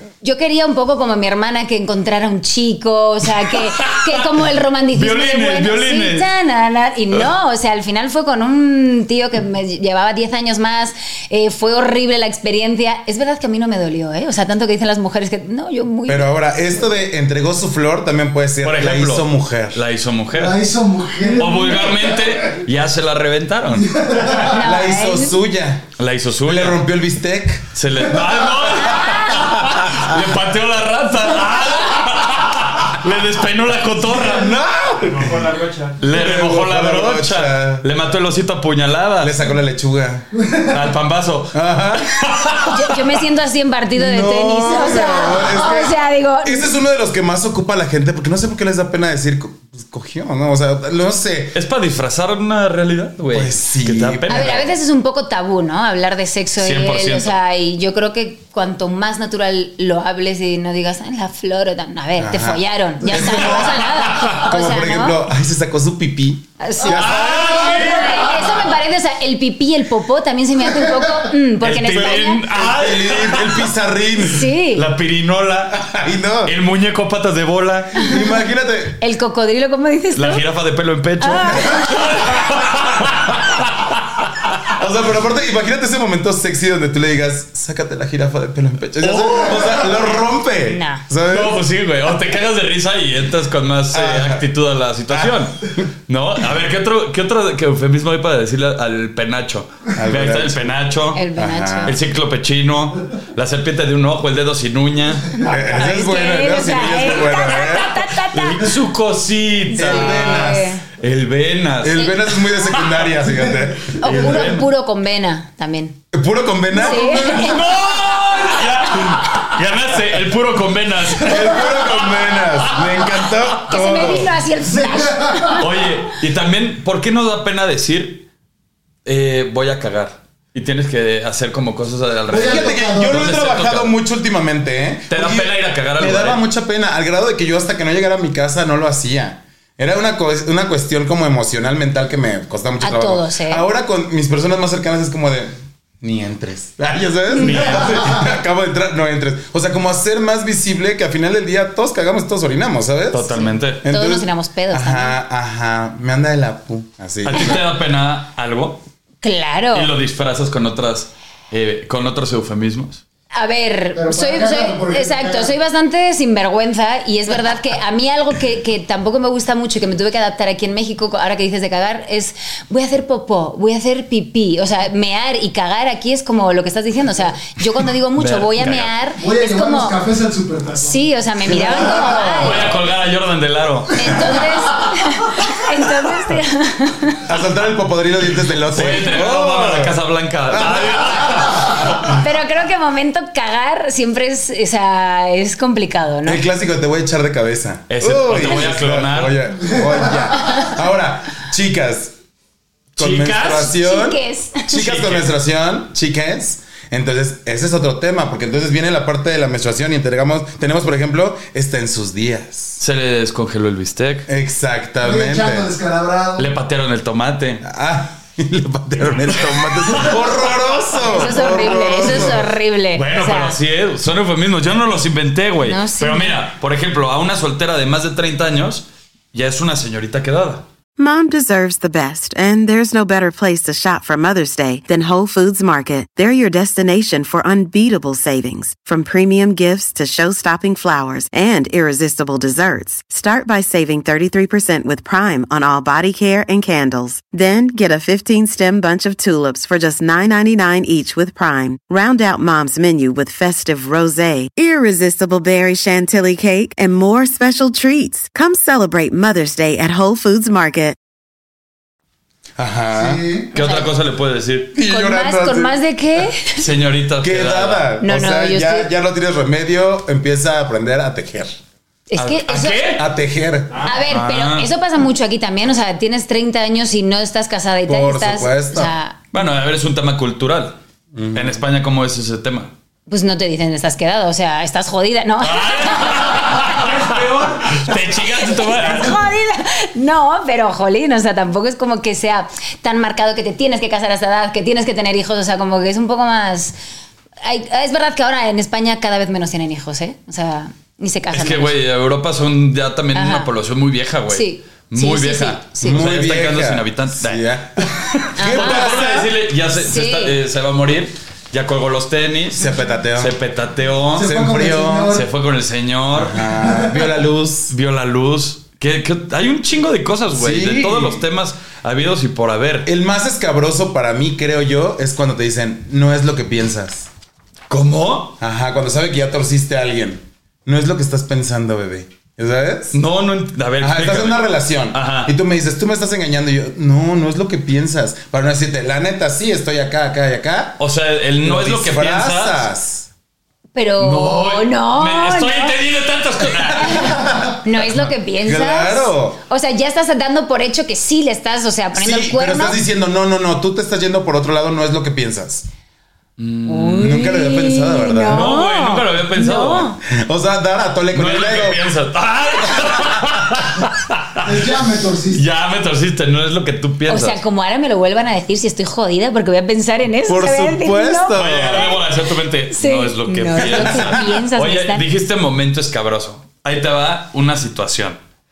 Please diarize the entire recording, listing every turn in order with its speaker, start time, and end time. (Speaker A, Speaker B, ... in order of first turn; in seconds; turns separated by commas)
Speaker A: 0.2-16.4, Speaker B: 3.5-6.3, Speaker C: 16.1-19.8, Speaker B: 18.6-20.6, Speaker D: 20.3-22.3, Speaker B: 21.4-24.0, Speaker D: 23.8-24.5, Speaker A: 24.4-25.4, Speaker C: 24.4-25.9, Speaker B: 26.0-26.8, Speaker C: 26.4-27.7, Speaker B: 27.7-39.4, Speaker A: 29.0-29.3, Speaker C: 29.7-30.0, Speaker C: 34.2-37.9, Speaker C: 39.2-40.3, Speaker D: 40.4-40.7, Speaker B: 40.7-43.0, Speaker C: 41.5-42.4, Speaker A: 42.6-46.7, Speaker C: 43.9-51.5, Speaker B: 51.5-54.7, Speaker C: 53.3-54.7, Speaker A: 54.3-65.2, Speaker B: 56.6-57.3, Speaker C: 62.2-68.0, Speaker B: 63.2-64.4, Speaker A: 66.6-72.4, Speaker B: 66.8-68.7, Speaker B: 71.6-73.7, Speaker C: 71.9-74.5, Speaker A: 74.2-74.8, Speaker B: 74.7-75.9, Speaker C: 75.8-76.5, Speaker B: 76.4-78.1, Speaker C: 78.0-79.0, Speaker A: 79.0-80.4, Speaker B: 80.1-84.5, Speaker A: 81.2-82.2, Speaker C: 84.7-91.6, Speaker B: 89.0-89.9, Speaker A: 90.7-91.0, Speaker B: 91.3-95.6, Speaker C: 93.9-94.4, Speaker C: 95.1-95.8, Speaker B: 96.1-101.2, Speaker C: 99.9-100.6, Speaker A: 101.1-102.0, Speaker C: 101.3-102.0, Speaker B: 101.8-105.4, Speaker C: 105.4-107.9, Speaker A: 105.5-108.7, Speaker B: 108.3-113.1, Speaker A: 109.7-110.8, Speaker C: 109.8-110.7, Speaker C: 111.8-114.4, Speaker A: 114.0-116.0, Speaker B: 114.0-114.7, Speaker C: 116.1-117.1, Speaker D: 116.7-117.6, Speaker A: 116.7-117.6, Speaker B: 117.3-123.0, Speaker C: 121.2-124.3, Speaker A: 123.7-125.6, Speaker D: 124.7-125.6, Speaker B: 125.6-128.3, Speaker B: 129.0-133.9, Speaker D: 132.3-133.2, Speaker C: 132.4-157.6, Speaker B: 135.1-136.4, Speaker A: 142.8-143.7, Speaker B: 147.4-148.2, Speaker B: 153.1-153.8, Speaker A: 153.8-155.2, Speaker B: 157.2-158.8, Speaker A: 159.2-159.9, Speaker B: 159.7-163.0, Speaker A: 163.3-180.0, Speaker D: 163.9-165.5, Speaker B: 178.2-178.9, Speaker D: 179.2-182.2, Speaker A: 180.8-182.7, Speaker C: 181.6-182.6, Speaker B: 182.3-184.3, Speaker A: 183.9-187.2, Speaker C: 187.2-190.0, Speaker B: 188.7-192.2, Speaker C: 190.5-190.9, Speaker A: 192.0-196.4, Speaker C: 196.2-202.1, Speaker B: 197.9-199.4, Speaker D: 199.7-200.1, Speaker A: 200.3-200.7, Speaker B: 203.0-203.7, Speaker C: 203.0-212.8, Speaker A: 203.7-204.7, Speaker B: 204.7-205.3, Speaker B: 212.8-214.3, Speaker C: 214.3-215.7, Speaker D: 215.0-216.5, Speaker B: 216.4-217.6, Speaker C: 217.6-222.5, Speaker B: 219.9-220.4, Speaker A: 221.1-223.6, Speaker B: 222.0-222.3, Speaker B: 222.9-230.6, Speaker A: 225.6-226.4, Speaker E: 231.0-261.0, Speaker C: 262.6-263.2, Speaker D: 262.9-263.5, Speaker B: 263.5-264.7, Speaker A: 263.6-263.9, Speaker C: 264.7-265.8, Speaker A: 264.9-266.6, Speaker B: 266.6-267.9, Speaker C: 267.2-271.6, Speaker A: 268.0-268.9, Speaker A: 272.1-272.9, Speaker B: 272.2-273.1, Speaker C: 272.9-273.9, Speaker B: 273.7-274.7, Speaker A: 273.8-279.2, Speaker C: 277.9-278.9, Speaker B: 279.3-280.8, Speaker C: 281.1-281.6, Speaker B: 281.3-282.7, Speaker A: 283.1-286.8, Speaker B: 285.4-289.2, Speaker D: 287.1-287.8, Speaker A: 288.3-296.7, Speaker A: 297.4-301.8, Speaker B: 301.3-314.3, Speaker A: 303.1-303.5, Speaker A: 304.3-305.6, Speaker C: 305.8-309.3, Speaker A: 308.4-309.1, Speaker A: 309.8-310.3, Speaker C: 312.6-313.3, Speaker D: 314.1-315.2, Speaker C: 314.2-315.2, Speaker B: 315.1-316.4, Speaker C: 316.1-317.7, Speaker D: 316.6-317.0, Speaker B: 317.7-322.9, Speaker C: 320.3-321.2, Speaker C: 322.8-327.1, Speaker B: 327.7-328.4, Speaker C: 328.4-333.0, Speaker B: 332.9-335.3, Speaker C: 333.8-340.8, Speaker B: 340.8-342.7, Speaker C: 341.4-343.1, Speaker A: 343.7-345.8, Speaker B: 344.0-347.1, Speaker A: 346.8-352.8, Speaker C: 347.0-349.4, Speaker C: 351.9-355.6, Speaker B: 356.4-357.2, Speaker A: 356.6-360.0, Speaker C: 357.0-358.5, Speaker B: 358.3-360.0, Speaker C: 360.1-361.8, Speaker B: 361.1-364.8, Speaker D: 364.4-365.4, Speaker B: 365.3-367.4, Speaker A: 367.1-372.0, Speaker C: 370.3-371.9, Speaker B: 371.3-378.2, Speaker A: 372.7-375.1, Speaker C: 373.7-374.0